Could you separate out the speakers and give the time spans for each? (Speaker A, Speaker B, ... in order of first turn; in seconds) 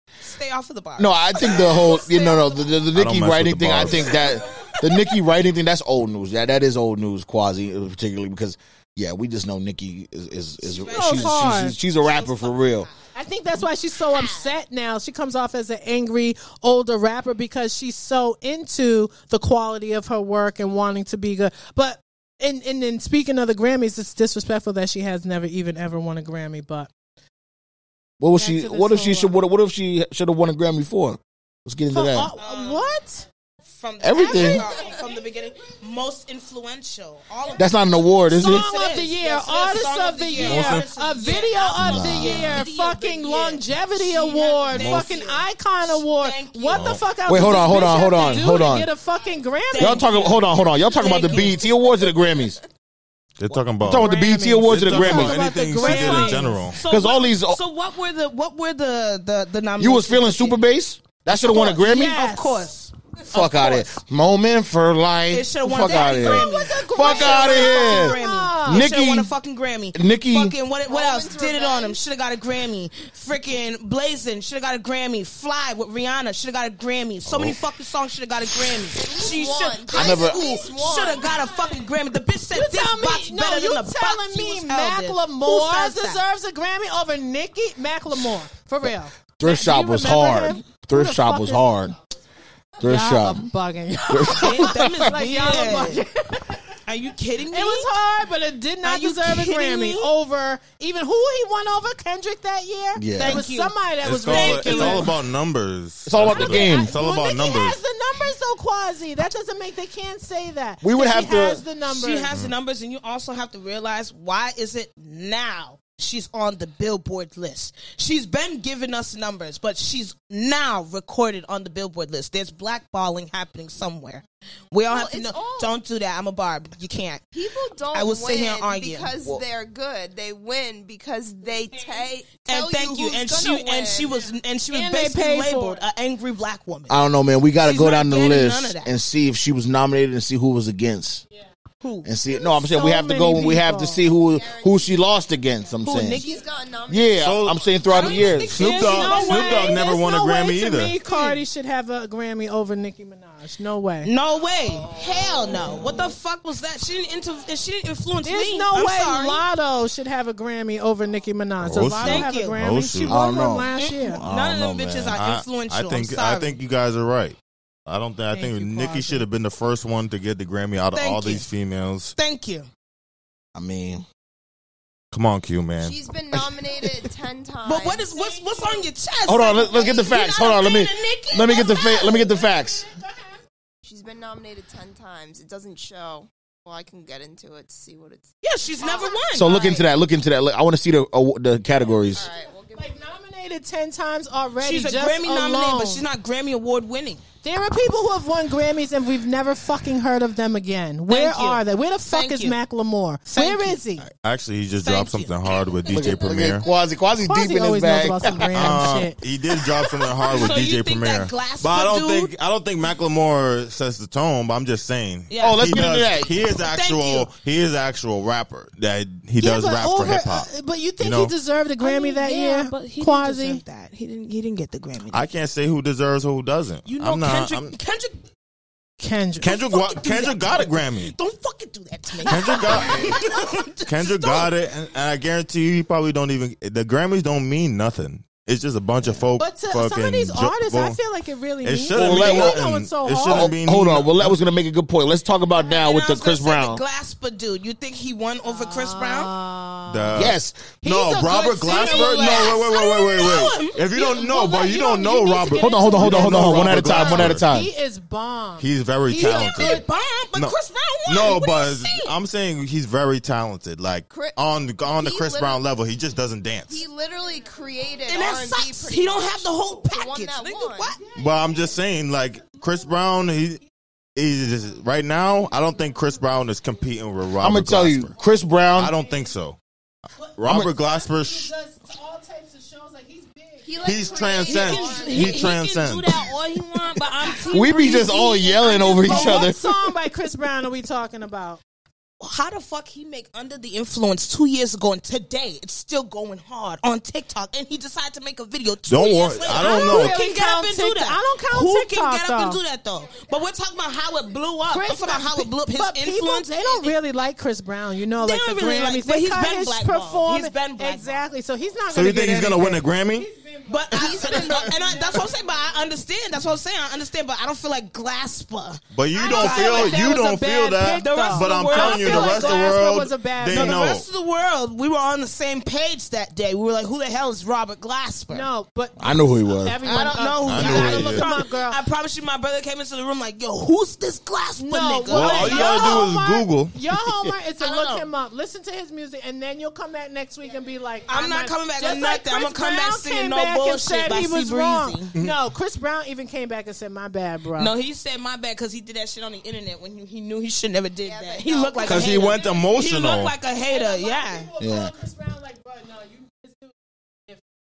Speaker A: 0.2-2.6, 10.6-13.0, 13.5-14.5, 32.4-33.0, 33.8-47.0, 49.7-51.6, 55.8-60.6, 61.3-64.0, 65.3-86.2, 94.3-96.0, 96.9-97.9, 98.8-100.1, 103.2-103.7, 104.3-105.1, 111.9-127.3, 127.9-129.1, 132.4-136.9, 137.6-138.9, 141.8-142.1, 145.8-146.4, 147.9-149.9, 151.1-151.4, 154.0-159.4, 162.0-162.6, 163.7-166.6, 170.9-171.5, 172.2-172.7, 177.7-182.3, 188.4-189.8, 194.6-197.2, 201.1-202.6, 203.3-203.8, 204.8-206.2, 210.2-212.3, 215.3-215.9, 216.6-217.3, 221.8-225.3, 226.8-228.2, 229.5-234.5, 245.6-249.3, 251.7-254.4, 259.2-262.1, 268.1-271.0, 284.4-289.5, 292.2-306.9, 308.2-311.2, 313.7-320.2, 321.0-322.9, 323.5-328.5, 329.8-336.1, 337.6-338.1, 341.1-345.1, 347.6-354.5
Speaker B: 1.0-12.9, 28.2-32.3, 34.0-34.7, 37.6-38.7, 41.8-42.6, 47.3-48.9, 49.8-52.6, 53.8-55.4, 56.8-57.6, 59.8-62.2, 63.3-69.3, 69.9-70.5, 79.9-80.4, 89.4-92.0, 92.8-93.5, 94.1-95.1, 103.0-103.4, 106.1-106.9, 110.8-111.6, 136.9-141.2, 142.1-146.2, 146.9-148.7, 163.1-165.2, 173.6-174.1, 179.3-182.9, 189.3-192.3, 205.9-208.8, 215.4-216.3, 241.9-242.6, 243.3-246.8, 250.2-250.6, 255.6-257.7, 277.4-278.9, 280.5-280.7, 287.5-289.6, 329.0-329.8, 354.6-354.9
Speaker C: 2.9-4.2, 40.4-40.9, 44.7-45.1, 46.7-47.0, 53.4-54.1, 54.6-56.8, 77.3-77.6, 104.0-107.8, 147.2-147.7, 148.5-151.0, 161.6-163.2, 165.1-172.1, 175.1-175.9, 204.0-206.7, 208.5-221.3, 225.1-227.8, 229.4-231.2, 232.3-233.2, 233.9-241.0, 241.6-244.4, 249.9-257.5, 258.6-266.8, 271.2-273.6, 274.2-278.1, 278.8-279.6, 280.4-281.5, 283.8-286.3, 298.9-300.2, 311.9-313.3, 318.9-324.1, 330.4-331.3, 335.1-336.8, 351.8-353.4
Speaker D: 10.9-11.8, 13.1-26.9, 28.3-29.4, 31.9-33.3, 34.2-35.0, 38.3-50.1, 51.1-51.4, 53.9-56.7, 61.8-62.7, 65.8-68.9, 81.4-81.8, 82.5-91.9, 92.8-96.8, 97.5-105.2, 106.3-112.3, 131.7-132.1, 134.7-135.9, 142.3-144.0, 147.9-154.1, 158.2-164.2, 168.3-169.3, 178.1-178.9, 179.5-179.9, 181.6-183.4, 192.7-196.1, 197.4-204.1, 207.2-209.2, 219.4-223.6, 229.0-229.6, 239.4-243.6, 248.4-252.9, 254.0-259.9, 267.2-267.6, 271.0-271.8, 272.4-273.0, 275.6-276.2, 278.2-279.3, 280.2-285.3, 287.4-291.6, 299.5-302.6, 304.7-315.9, 319.1-323.9, 328.3-331.8, 334.6-347.7, 352.2-352.8, 353.6-356.7
Speaker E: 51.1-51.6, 70.8-72.0, 79.0-81.5, 124.9-125.8, 127.3-134.3, 144.0-145.1, 145.9-148.5, 154.3-156.0, 175.8-178.1, 183.8-189.6, 192.1-193.2, 251.7-252.6, 264.1-265.6, 266.7-270.9, 283.6-285.6, 287.9-289.1, 313.9-315.3, 351.0-352.5